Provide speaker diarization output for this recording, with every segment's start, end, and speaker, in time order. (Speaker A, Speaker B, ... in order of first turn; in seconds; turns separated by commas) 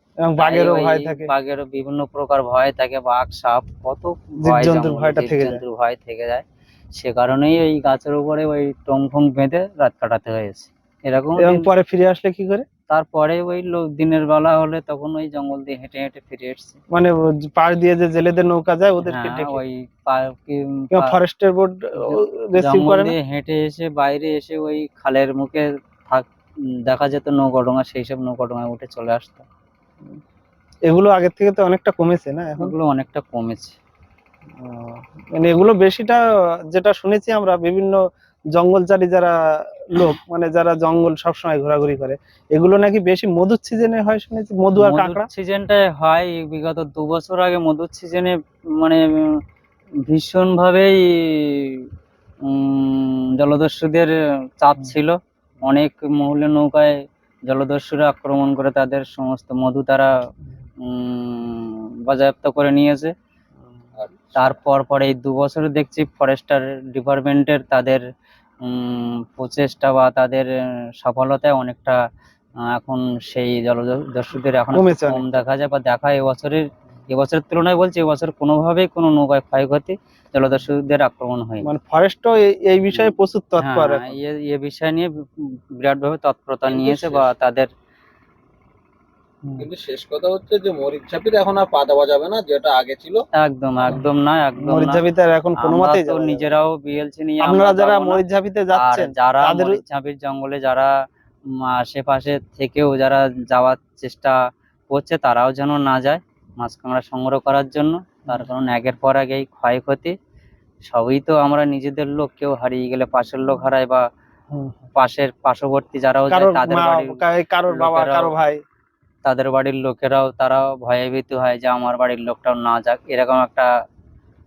Speaker A: 0.2-1.3, Speaker B: 0.4-11.7, Speaker A: 4.4-5.6, Speaker A: 11.4-12.7, Speaker B: 12.9-16.8, Speaker A: 16.9-19.6, Speaker B: 19.1-21.1, Speaker A: 20.9-23.2, Speaker B: 22.0-26.3, Speaker B: 26.9-29.5, Speaker A: 30.9-32.7, Speaker B: 32.6-33.8, Speaker A: 34.6-38.0, Speaker A: 38.5-45.3, Speaker B: 44.8-49.4, Speaker B: 50.1-51.9, Speaker B: 52.4-60.3, Speaker B: 60.8-63.1, Speaker C: 64.0-64.6, Speaker B: 64.4-68.1, Speaker B: 68.6-72.0, Speaker B: 72.6-81.7, Speaker A: 74.7-75.4, Speaker A: 81.6-84.2, Speaker B: 82.9-87.7, Speaker C: 86.7-87.3, Speaker C: 89.6-93.2, Speaker B: 93.3-95.0, Speaker A: 94.6-96.5, Speaker B: 95.6-98.2, Speaker A: 97.4-99.8, Speaker B: 98.7-100.9, Speaker B: 101.5-104.4, Speaker B: 104.9-110.2, Speaker B: 110.9-114.0, Speaker A: 114.5-114.8, Speaker B: 115.0-118.3, Speaker A: 116.3-118.6, Speaker B: 119.2-123.7